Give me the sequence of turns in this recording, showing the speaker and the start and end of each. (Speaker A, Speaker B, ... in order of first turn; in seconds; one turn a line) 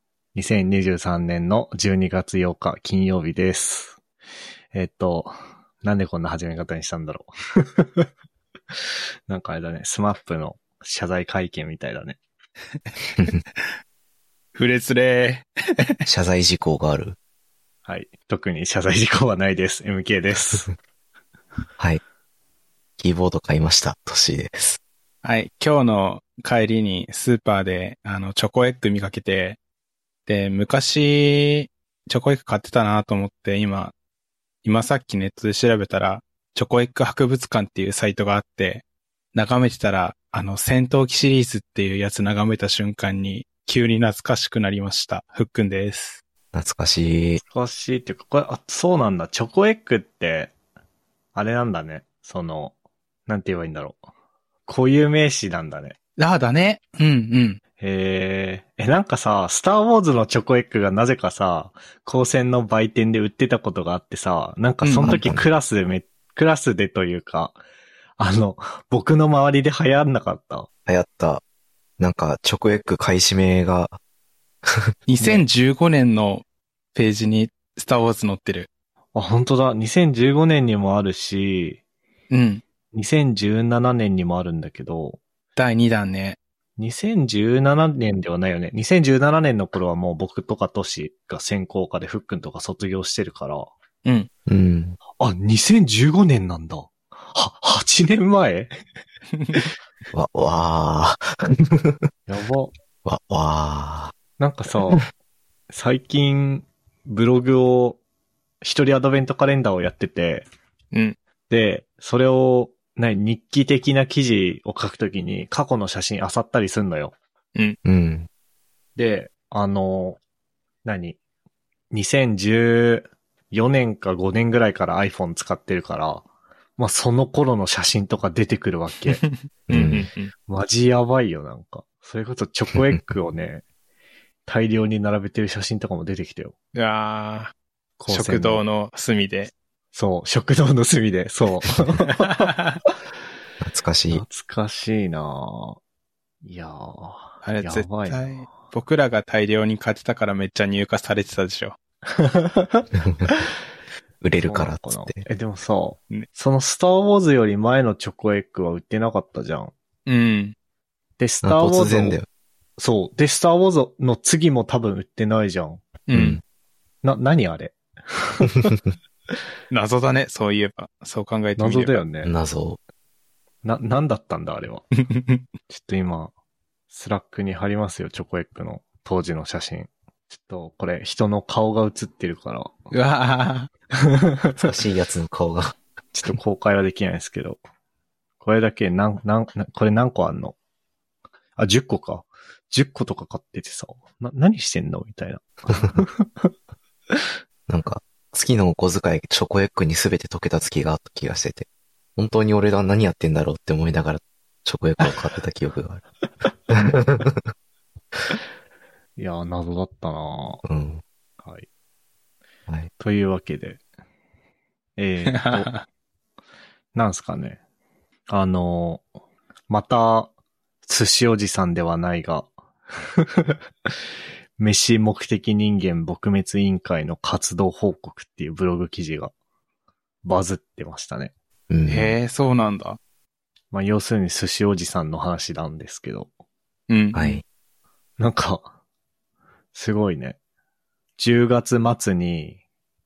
Speaker A: 0.3-4.0
Speaker A: 4.7-8.1
Speaker A: 9.3-12.2
Speaker B: 14.5-16.0
Speaker C: 16.0-17.2
Speaker A: 17.9-20.7
Speaker C: 23.0-24.8
Speaker B: 25.2-29.6
Speaker B: 30.3-33.9
Speaker B: 34.6-46.2
Speaker C: 46.5-47.4
Speaker A: 47.4-50.5
Speaker A: 51.3-52.7
Speaker A: 53.3-54.0
Speaker A: 54.7-56.0
Speaker B: 56.2-57.6
Speaker A: 57.8-67.6
Speaker B: 64.8-65.2
Speaker C: 65.0-65.4
Speaker A: 68.2-70.7
Speaker C: 70.8-71.4
Speaker C: 72.0-74.0
Speaker C: 74.6-74.9
Speaker B: 75.1-76.4
Speaker B: 76.9-78.7
Speaker A: 79.1-81.8
Speaker B: 82.3-82.6
Speaker A: 82.9-85.2
Speaker B: 85.5-86.4
Speaker A: 86.8-93.7
Speaker C: 94.5-95.0
Speaker A: 95.2-98.7
Speaker C: 100.1-102.1
Speaker A: 102.3-102.7
Speaker C: 103.0-104.2
Speaker A: 104.4-105.0
Speaker A: 105.7-108.0
Speaker A: 108.6-110.5
Speaker A: 111.5-117.1
Speaker C: 117.8-118.3
Speaker A: 119.0-120.2
Speaker A: 120.8-121.2
Speaker A: 121.9-126.2
Speaker A: 126.8-129.2
Speaker B: 129.2-130.3
Speaker C: 129.7-130.0
Speaker A: 129.7-133.6
Speaker A: 134.4-136.5
Speaker B: 136.7-137.5
Speaker A: 138.0-138.6
Speaker B: 138.1-139.5
Speaker A: 139.9-142.5
Speaker B: 142.2-142.8
Speaker C: 143.6-144.2
Speaker A: 144.1-145.8
Speaker A: 146.4-148.5
Speaker B: 147.4-151.8
Speaker A: 152.1-152.9
Speaker C: 152.9-153.2
Speaker C: 154.2-155.2
Speaker A: 154.4-159.7
Speaker B: 160.1-160.5
Speaker A: 161.2-162.2
Speaker C: 161.4-162.3
Speaker A: 162.8-165.8
Speaker B: 166.1-166.4
Speaker C: 166.1-166.4
Speaker A: 167.0-168.8
Speaker B: 169.7-172.0
Speaker A: 171.6-172.3
Speaker C: 172.2-172.8
Speaker A: 173.6-174.8
Speaker B: 175.0-175.4
Speaker A: 175.7-176.3
Speaker A: 176.9-182.8
Speaker B: 182.9-183.7
Speaker A: 184.0-184.6
Speaker C: 184.6-185.8
Speaker A: 186.1-187.6
Speaker A: 188.4-190.6
Speaker A: 191.6-196.5
Speaker C: 197.7-206.0
Speaker C: 206.7-207.5
Speaker A: 209.2-210.6
Speaker C: 210.6-211.0
Speaker A: 211.4-211.7
Speaker A: 213.0-213.8
Speaker A: 215.0-215.7
Speaker B: 215.3-215.8
Speaker A: 216.9-217.6
Speaker A: 218.3-219.1
Speaker A: 219.7-220.3
Speaker A: 220.8-222.5
Speaker A: 223.0-223.6
Speaker A: 224.6-229.3
Speaker A: 230.2-231.3
Speaker C: 231.7-232.1
Speaker B: 231.9-233.0
Speaker A: 233.7-236.3
Speaker B: 236.9-237.4
Speaker C: 237.1-237.4
Speaker A: 238.2-238.7
Speaker A: 239.7-240.4
Speaker A: 241.2-242.6